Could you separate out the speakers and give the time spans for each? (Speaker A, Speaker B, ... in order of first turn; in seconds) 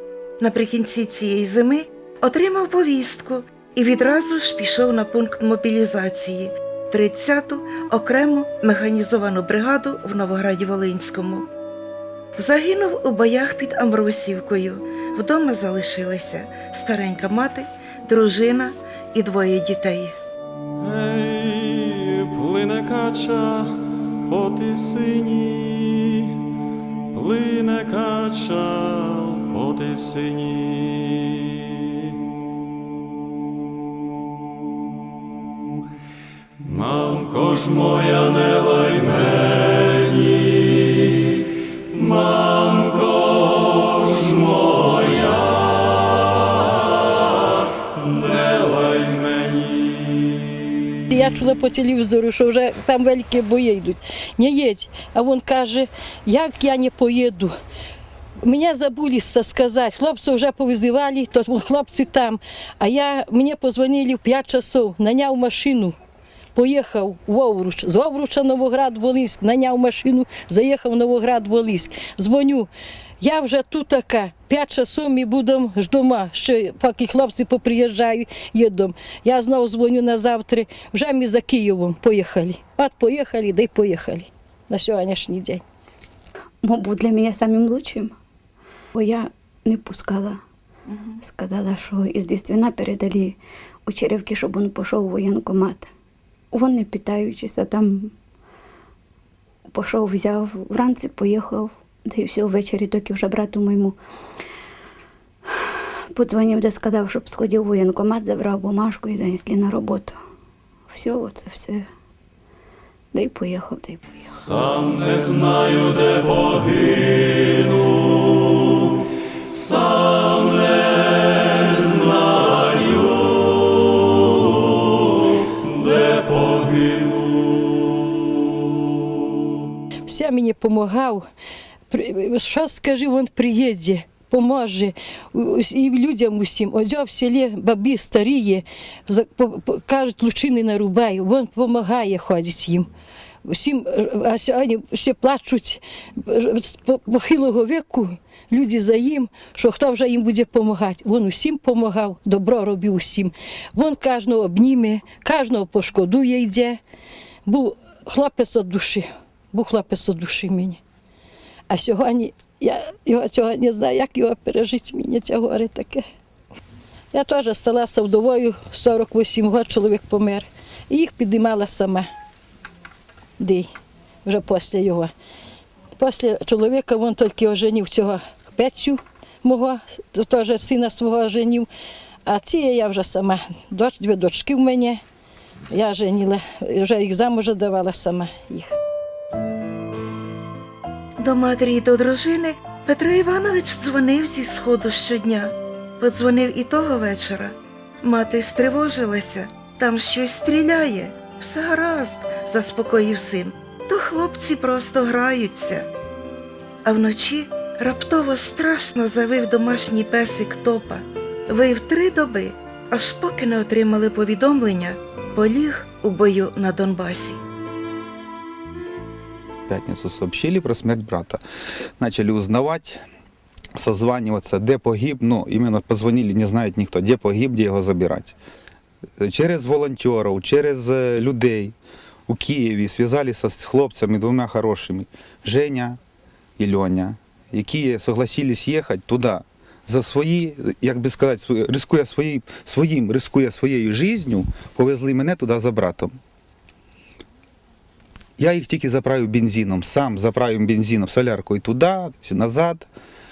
Speaker A: 0.4-11.4, 12.4-20.1, 90.9-91.2, 191.2-205.9, 206.8-217.4
Speaker B: 20.8-23.8, 24.3-26.2, 27.1-31.3, 36.6-40.4, 42.0-43.3, 44.0-45.5, 48.1-50.3, 114.7-116.8
Speaker C: 51.1-57.5, 58.4-65.9, 66.5-85.6, 130.1-131.2, 131.9-142.9, 143.4-156.8, 157.4-160.8, 161.7-166.0, 167.1-172.1, 173.4-173.7, 174.2-175.1, 176.0-181.7, 182.2-185.0, 185.7-188.7
Speaker D: 86.6-88.1, 88.9-90.4, 91.2-95.9, 96.5-98.1, 99.7-103.9, 106.1-110.2, 110.9-111.8, 113.1-114.5
Speaker E: 219.7-221.4, 222.0-223.0, 223.8-228.3, 229.2-231.7, 232.3-236.0, 236.6-246.1, 248.4-252.9